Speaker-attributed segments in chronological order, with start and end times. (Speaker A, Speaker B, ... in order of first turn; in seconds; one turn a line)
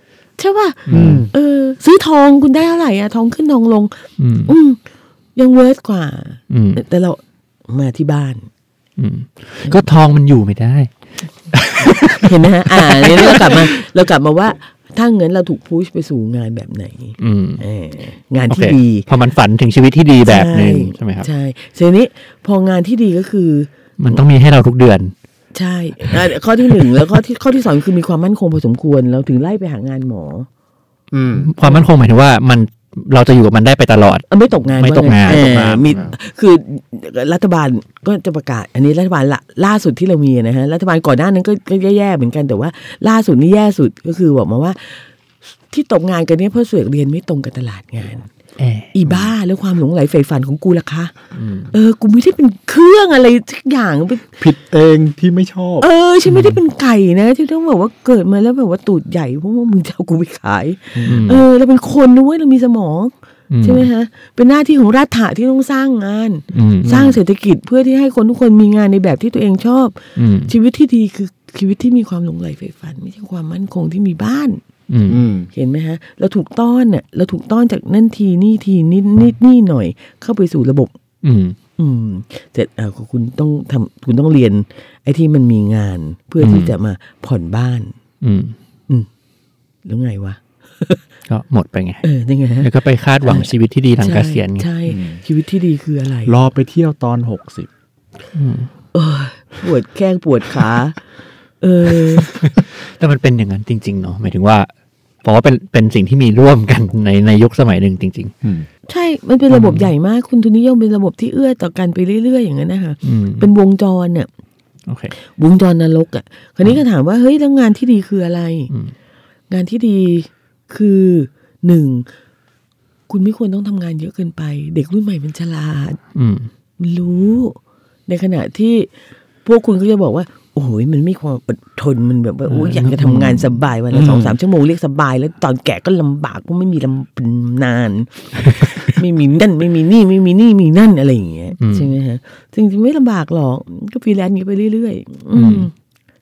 Speaker A: 0.4-4.8
Speaker B: 0.9-1.3
Speaker C: 0.9-1.3
Speaker B: 4.2-4.5
Speaker A: 5.4-8.4
Speaker B: 6.5-6.8
Speaker B: 9.0-10.9
Speaker B: 11.5-12.2
Speaker A: 12.2-19.1
Speaker B: 12.9-13.7
Speaker B: 17.2-17.6
Speaker B: 18.5-21.3
Speaker A: 20.3-24.2
Speaker B: 24.0-25.1
Speaker A: 25.5-30.5
Speaker C: 31.1-31.5
Speaker B: 31.4-34.3
Speaker A: 34.3-45.1
Speaker B: 34.8-35.7
Speaker C: 35.2-36.1
Speaker A: 45.7-48.3
Speaker B: 48.6-48.9
Speaker A: 48.9-51.1
Speaker B: 51.4-51.7
Speaker A: 51.7-54.4
Speaker C: 54.4-55.9
Speaker A: 55.8-74.6
Speaker C: 61.0-61.4
Speaker B: 61.0-61.4
Speaker B: 63.5-63.9
Speaker B: 66.5-67.1
Speaker C: 66.8-67.2
Speaker B: 70.2-70.5
Speaker B: 74.9-75.2
Speaker C: 75.1-75.5
Speaker A: 75.5-80.9
Speaker B: 81.2-81.6
Speaker A: 81.8-87.9
Speaker B: 86.4-86.7
Speaker B: 88.2-88.5
Speaker A: 89.8-91.0
Speaker B: 91.3-92.0
Speaker A: 92.0-92.7
Speaker B: 92.6-94.7
Speaker A: 93.2-96.4
Speaker C: 94.9-95.2
Speaker C: 96.3-97.7
Speaker B: 98.3-98.7
Speaker A: 98.9-101.0
Speaker A: 101.6-102.3
Speaker B: 102.2-104.7
Speaker B: 105.2-108.3
Speaker A: 108.9-114.3
Speaker B: 109.5-109.9
Speaker B: 113.0-113.5
Speaker B: 114.9-115.1
Speaker A: 115.3-118.7
Speaker A: 119.5-122.1
Speaker A: 123.1-126.0
Speaker B: 126.2-126.5
Speaker A: 126.8-128.9
Speaker A: 129.4-145.7
Speaker B: 132.5-133.6
Speaker C: 133.9-134.4
Speaker B: 141.6-141.9
Speaker B: 145.3-145.7